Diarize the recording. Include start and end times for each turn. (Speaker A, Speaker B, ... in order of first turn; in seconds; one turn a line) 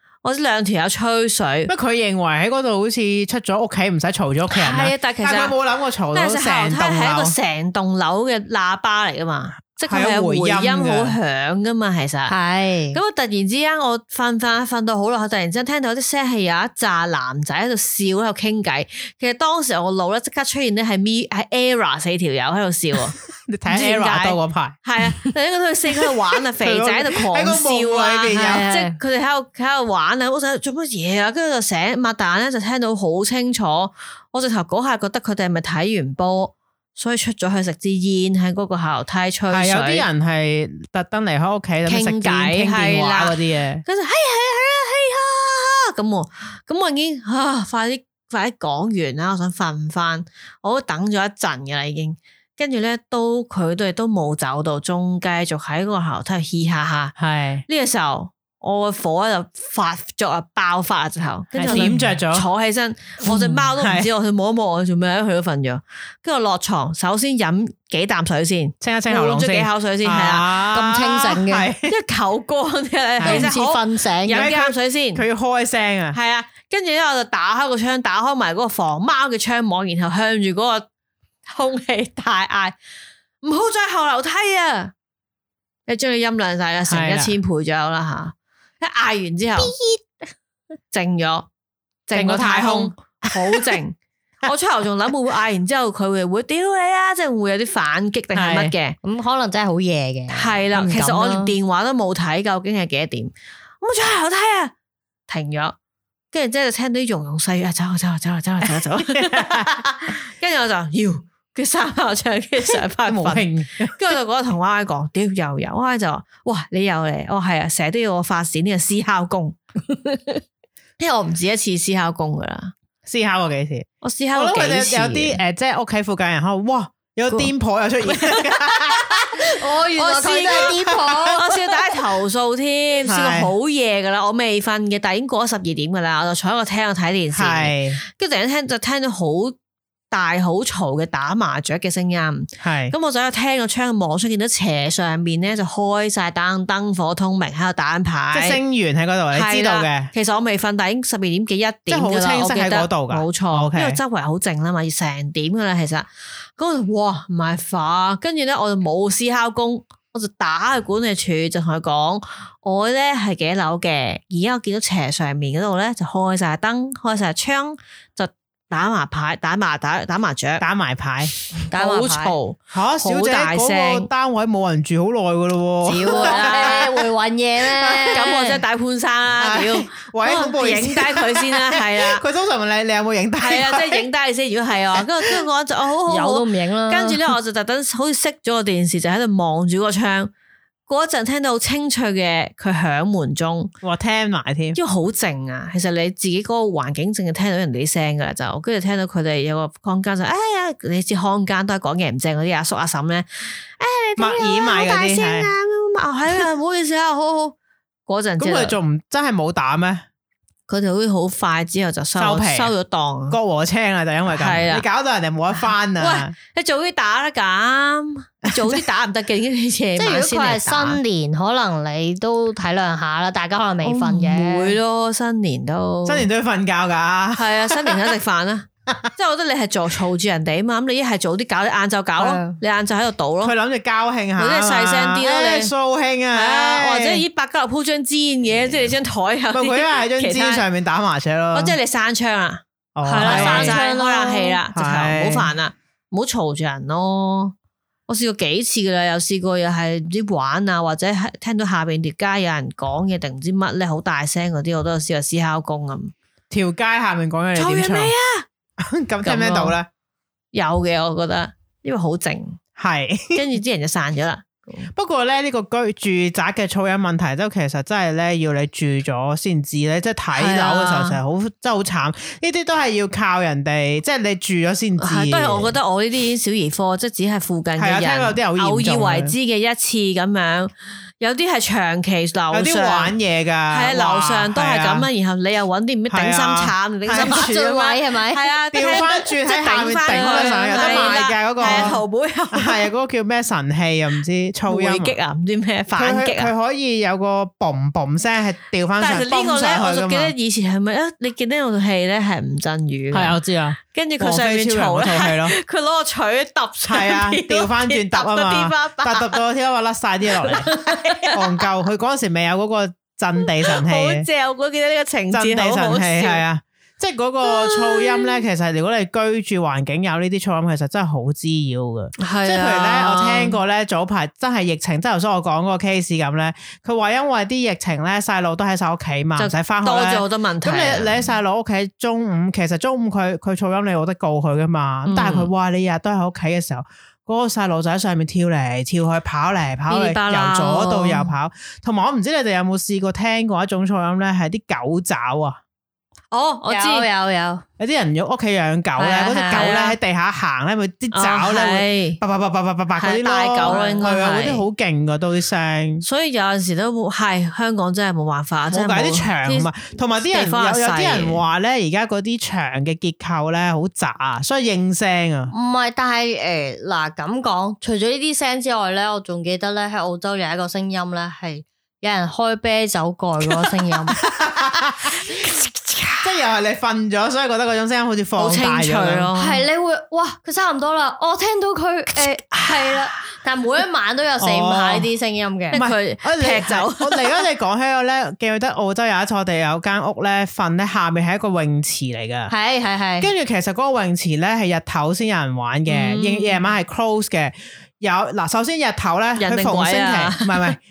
Speaker A: 0.2-1.7
Speaker B: 1.7-7.3
Speaker A: 4.5-5.5
Speaker A: 6.1-12.3
Speaker B: 9.8-11.2
Speaker C: 12.3-13.0
Speaker A: 12.9-40.0
Speaker B: 23.5-24.8
Speaker B: 26.6-28.6
Speaker C: 28.4-29.0
Speaker B: 39.5-43.8
Speaker A: 41.9-57.1
Speaker B: 57.2-57.6
Speaker A: 57.7-70.5
Speaker B: 61.5-62.5
Speaker B: 63.2-64.1
Speaker B: 68.8-71.9
Speaker C: 70.7-71.7
Speaker A: 71.9-75.2
Speaker B: 73.2-73.5
Speaker C: 73.2-74.5
Speaker B: 74.3-76.2
Speaker A: 76.1-80.9
Speaker A: 81.5-82.8
Speaker A: 83.4-84.9
Speaker A: 85.9-89.7
Speaker B: 86.9-87.3
Speaker A: 90.9-91.5
Speaker A: 92.1-99.0
Speaker B: 92.1-93.8
Speaker B: 98.3-98.7
Speaker C: 99.0-101.5
Speaker A: 100.3-104.7
Speaker A: 105.3-105.8
Speaker A: 106.3-119.6
Speaker B: 108.6-109.8
Speaker B: 113.0-114.0
Speaker A: 121.0-122.7
Speaker B: 123.0-129.3
Speaker A: 124.0-125.4
Speaker A: 128.0-129.3
Speaker C: 129.4-131.5
Speaker A: 129.9-130.7
Speaker B: 130.4-131.3
Speaker A: 131.3-139.5
Speaker B: 133.1-133.5
Speaker B: 137.3-138.0
Speaker A: 140.1-148.6
Speaker B: 142.6-142.9
Speaker B: 148.3-150.1
Speaker A: 149.3-170.6
Speaker B: 151.9-154.0
Speaker B: 170.6-171.3
Speaker C: 171.7-172.3
Speaker A: 171.7-174.1
Speaker B: 172.7-177.0
Speaker C: 175.8-178.6
Speaker A: 176.0-177.0
Speaker B: 177.8-178.3
Speaker A: 178.0-182.2
Speaker B: 179.3-184.0
Speaker A: 183.4-190.3
Speaker C: 186.1-187.2
Speaker A: 190.9-193.7
Speaker B: 193.8-194.8
Speaker A: 194.8-203.3
Speaker A: 203.8-207.5
Speaker B: 204.2-205.5
Speaker A: 208.1-208.8
Speaker B: 208.4-210.0
Speaker A: 210.7-213.4
Speaker B: 212.2-212.7
Speaker B: 213.3-216.3
Speaker A: 214.3-214.8
Speaker A: 216.0-221.0
Speaker B: 218.5-218.8
Speaker C: 220.0-224.8
Speaker A: 223.8-226.3
Speaker B: 226.0-228.1
Speaker A: 227.4-233.5
Speaker C: 232.2-232.6
Speaker B: 233.4-237.2
Speaker A: 234.4-235.7
Speaker A: 236.3-240.6
Speaker B: 239.5-241.8
Speaker A: 241.5-247.5
Speaker B: 242.9-243.8
Speaker C: 243.1-244.6
Speaker B: 244.7-245.5
Speaker A: 248.1-256.1
Speaker B: 256.5-258.1
Speaker A: 257.6-258.4
Speaker B: 258.8-259.9
Speaker A: 259.2-259.8
Speaker A: 260.5-262.6
Speaker B: 262.8-263.5
Speaker A: 263.3-264.9
Speaker B: 264.9-275.8
Speaker A: 270.3-271.2
Speaker A: 275.0-283.1
Speaker B: 277.8-279.3
Speaker B: 282.5-285.1
Speaker A: 283.7-292.9
Speaker B: 286.1-287.5
Speaker C: 287.2-289.0
Speaker B: 288.7-292.0
Speaker C: 290.1-292.0
Speaker B: 292.5-295.1
Speaker A: 294.7-296.5
Speaker B: 295.9-300.3
Speaker A: 299.0-303.4
Speaker B: 303.1-305.6
Speaker A: 303.9-309.4
Speaker B: 306.9-310.8
Speaker A: 310.4-311.6
Speaker B: 311.3-314.3
Speaker A: 313.6-316.4
Speaker B: 315.3-345.6
Speaker A: 317.4-318.3
Speaker A: 322.2-323.6
Speaker A: 329.4-331.2
Speaker A: 335.1-335.5
Speaker A: 339.9-341.3
Speaker A: 346.3-347.1
Speaker C: 346.7-347.6
Speaker B: 347.8-356.0
Speaker C: 349.0-349.7
Speaker A: 349.5-350.0
Speaker A: 351.1-352.2
Speaker A: 353.0-354.6
Speaker C: 353.6-354.1
Speaker A: 356.0-361.4
Speaker B: 358.7-365.5
Speaker C: 365.5-374.2
Speaker B: 374.2-375.2
Speaker A: 375.2-376.3
Speaker B: 376.2-379.3
Speaker A: 378.4-379.6
Speaker C: 379.4-385.8
Speaker B: 384.4-385.1
Speaker B: 385.7-392.5
Speaker A: 385.7-387.3
Speaker C: 392.5-393.3
Speaker B: 393.2-400.8
Speaker A: 395.9-396.6
Speaker A: 399.4-400.8